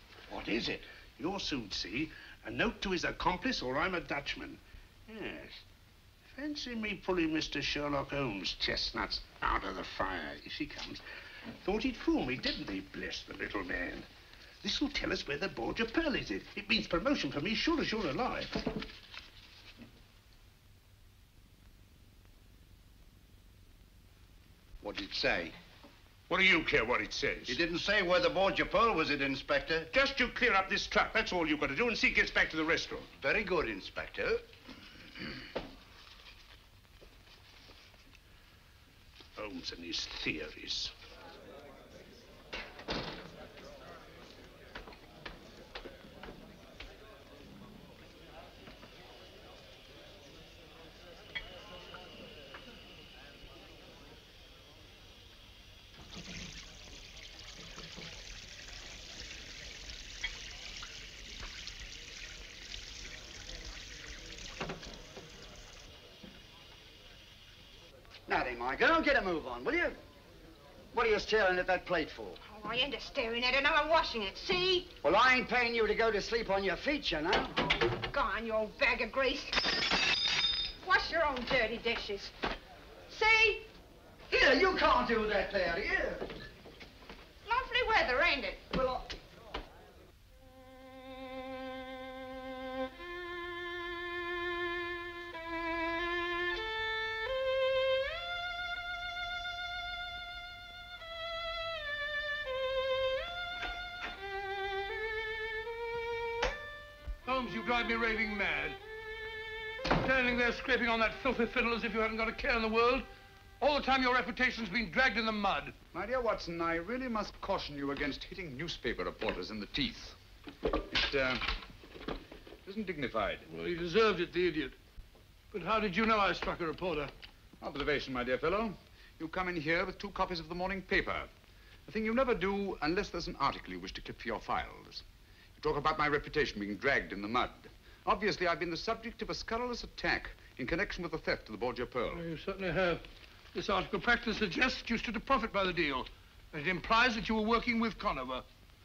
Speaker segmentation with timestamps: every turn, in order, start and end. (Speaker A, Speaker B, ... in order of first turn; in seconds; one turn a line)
Speaker A: 0.3-5.6
Speaker A: 6.3-11.0
Speaker A: 11.6-14.1
Speaker A: 14.6-18.8
Speaker B: 24.8-25.5
Speaker A: 26.3-27.6
Speaker B: 27.5-29.9
Speaker A: 29.9-33.2
Speaker B: 33.2-34.4
Speaker A: 39.4-40.9
Speaker C: 68.3-70.0
Speaker C: 70.9-72.4
Speaker D: 72.4-74.9
Speaker C: 75.0-77.6
Speaker D: 78.1-79.7
Speaker D: 80.8-82.3
Speaker D: 83.1-83.6
Speaker C: 84.3-86.2
Speaker D: 87.4-89.1
Speaker E: 107.2-108.8
Speaker E: 109.8-113.1
Speaker E: 113.6-115.7
Speaker F: 115.9-120.2
Speaker F: 120.9-121.5
Speaker F: 122.6-123.5
Speaker E: 123.5-124.8
Speaker E: 125.5-127.1
Speaker F: 127.6-131.3
Speaker F: 131.8-135.0
Speaker F: 135.6-142.2
Speaker E: 142.1-148.4